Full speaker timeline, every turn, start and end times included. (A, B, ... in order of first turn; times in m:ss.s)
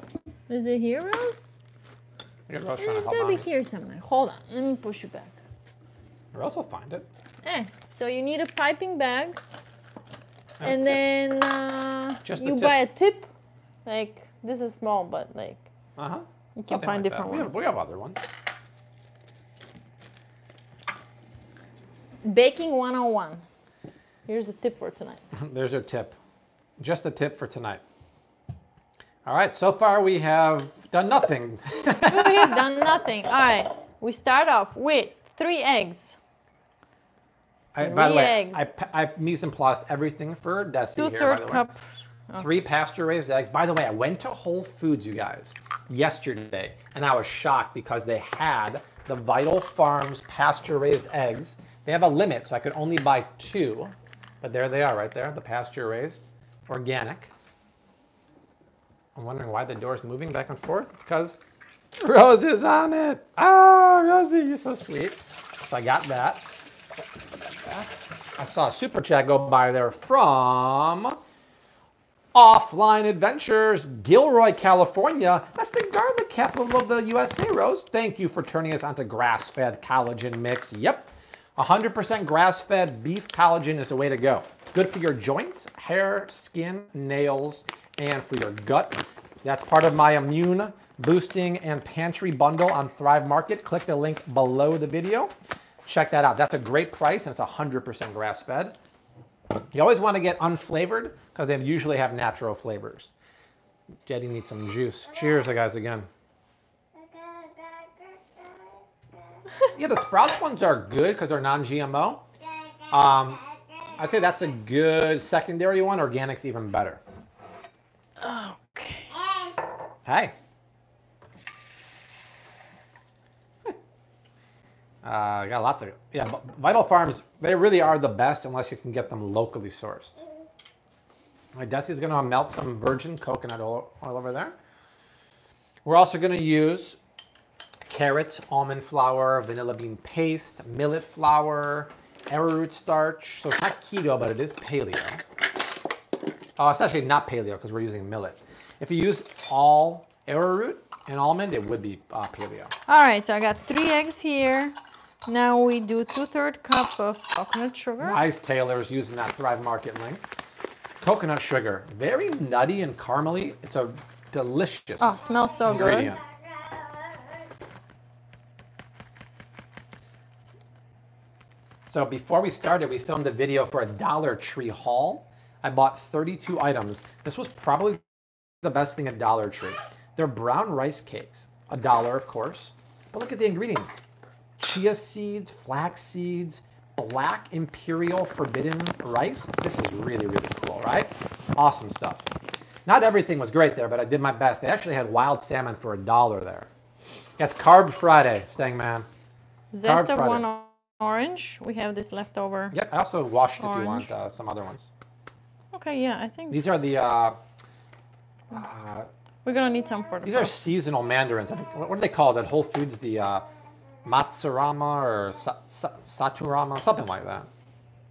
0:00.5-0:01.5 A
0:02.5-0:03.5 B
0:02.8-0:05.4 A
0:06.3-0:07.1 B
0:07.4-0:09.4 A
0:10.6-0:11.0 B
0:10.6-0:13.3 A
0:12.2-0:12.7 B
0:13.8-0:15.7 A
0:16.0-0:18.2 B
0:16.6-0:17.6 A
0:22.2-0:23.4 A
0:24.3-0:25.2 A
0:25.3-0:26.2 B
0:26.8-0:27.8 B
0:29.2-0:32.6 B
0:32.1-0:36.2 A
0:37.7-0:41.6 B
0:37.8-0:38.7 A
0:41.0-0:41.8 A
0:42.4-0:57.3 B
0:59.2-1:01.4 B
1:02.0-1:06.5 B
1:07.7-1:11.2 B
1:12.3-1:35.3 B
1:35.8-1:38.8 B
1:39.7-1:43.1 B
1:44.1-1:46.1 B
1:49.8-1:52.2 B
1:52.9-1:53.4 B
1:54.0-1:57.0 B
1:58.2-1:59.2 A
2:00.1-2:00.3 B
2:05.0-2:10.2 B
2:11.5-2:14.6 B
2:15.8-2:17.0 B
2:17.9-2:25.2 B
2:26.6-2:32.7 B
2:32.9-2:38.2 A
2:38.0-2:40.2 B
2:41.0-2:45.1 B
2:45.0-2:46.2 A
2:45.7-2:46.2 B
2:51.9-2:58.0 B
2:58.6-3:04.0 B
3:04.6-3:12.3 B
3:12.9-3:16.7 B
3:17.4-3:19.1 B
3:19.7-3:22.7 A
3:19.8-3:20.4 B
3:22.7-3:24.9 B
3:23.6-3:24.1 A
3:25.7-3:26.7 A
3:26.5-3:27.4 B
3:28.5-3:29.1 B
3:29.4-3:30.5 A
3:30.2-3:33.4 B
3:34.0-3:37.5 B